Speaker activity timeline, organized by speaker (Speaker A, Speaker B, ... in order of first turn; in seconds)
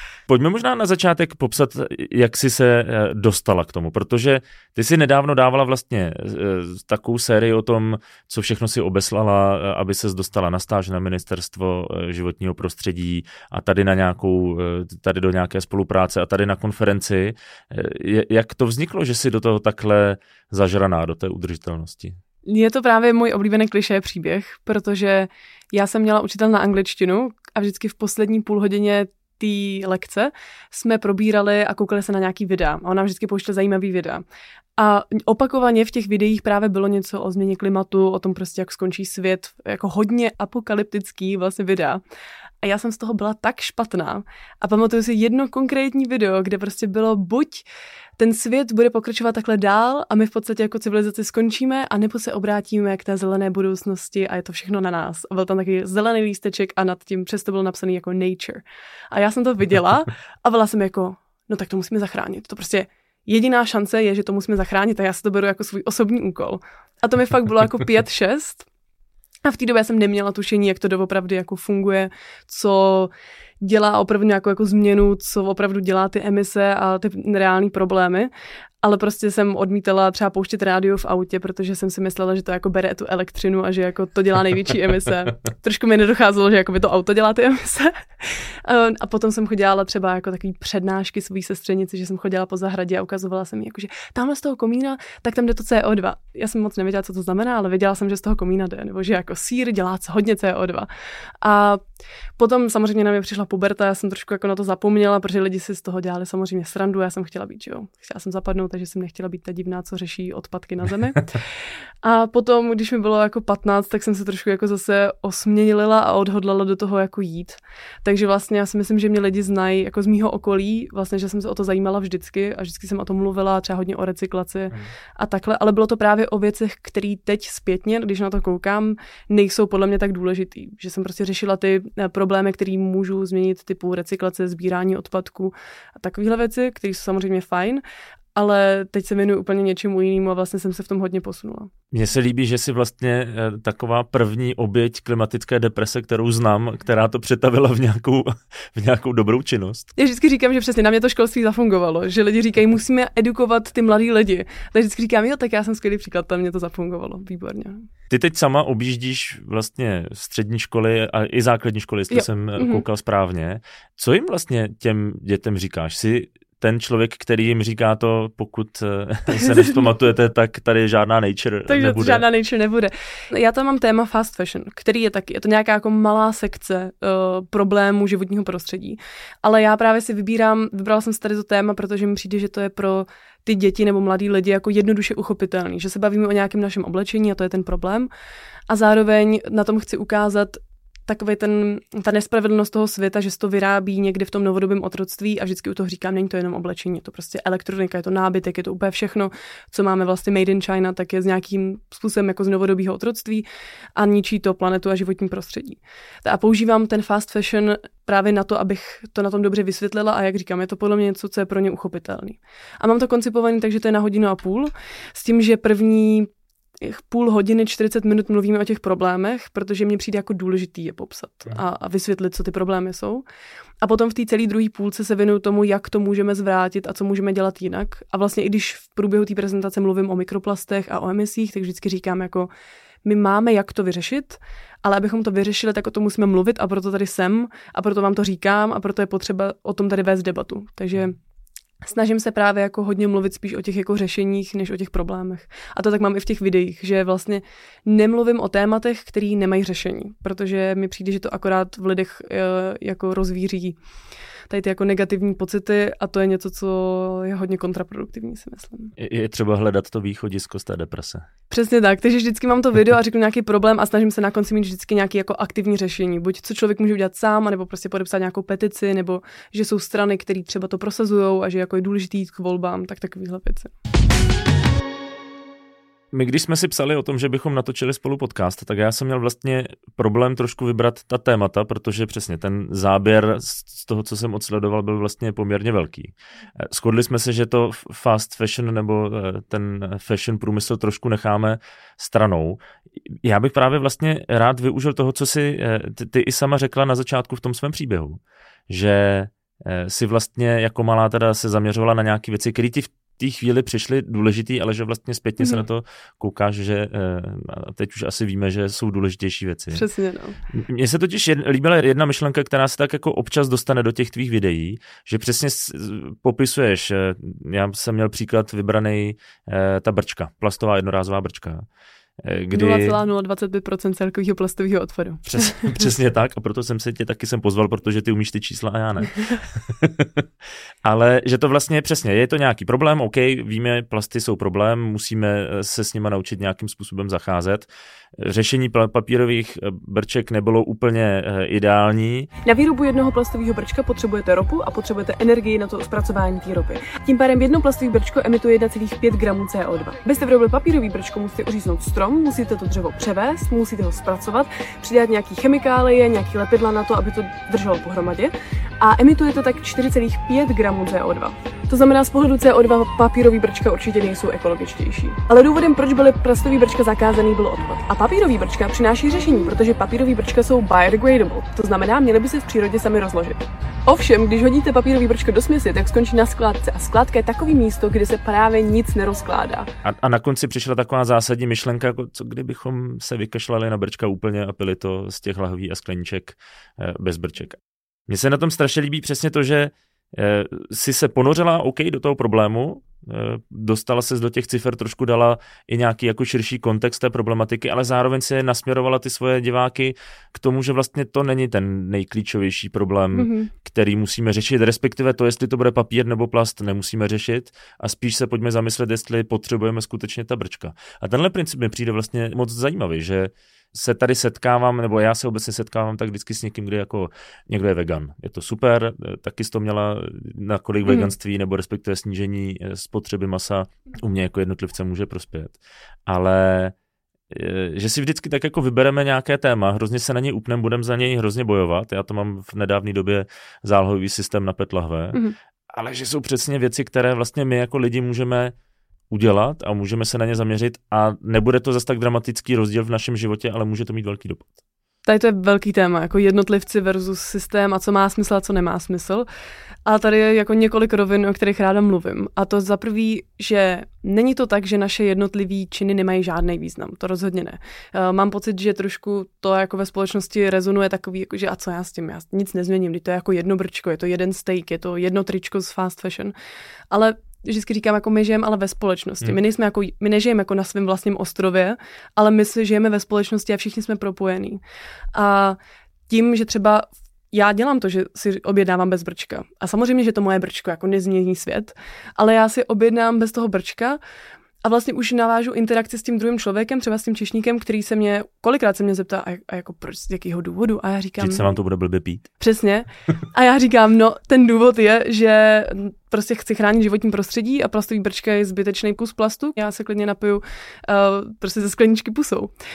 Speaker A: 0.3-22.2, 141.9-149.9, 158.1-172.2, 259.0-261.3, 276.1-309.9, 310.5-321.7, 322.2-323.0, 325.3-330.3, 330.8-342.3, 379.8-426.7, 427.3-435.2, 435.7-438.6, 439.1-444.6, 491.2-492.3
Speaker B: 22.5-34.2, 34.8-42.0, 42.6-47.6, 48.2-68.7, 69.5-78.3, 78.8-100.9, 101.4-101.8, 102.4-111.4, 112.0-137.8, 138.3-141.7, 150.0-157.9, 162.1-162.8, 169.3-169.9, 171.7-188.1, 188.7-203.4, 204.0-216.3, 216.8-223.2, 223.8-232.5, 233.1-241.2, 241.8-253.8, 254.5-258.9, 261.5-273.7, 309.7-310.4, 322.5-325.6, 342.4-379.7, 403.1-403.5, 445.1-449.3, 449.9-466.3, 466.9-474.6, 475.1-475.6, 476.1-484.0, 484.6-491.4, 492.4-502.5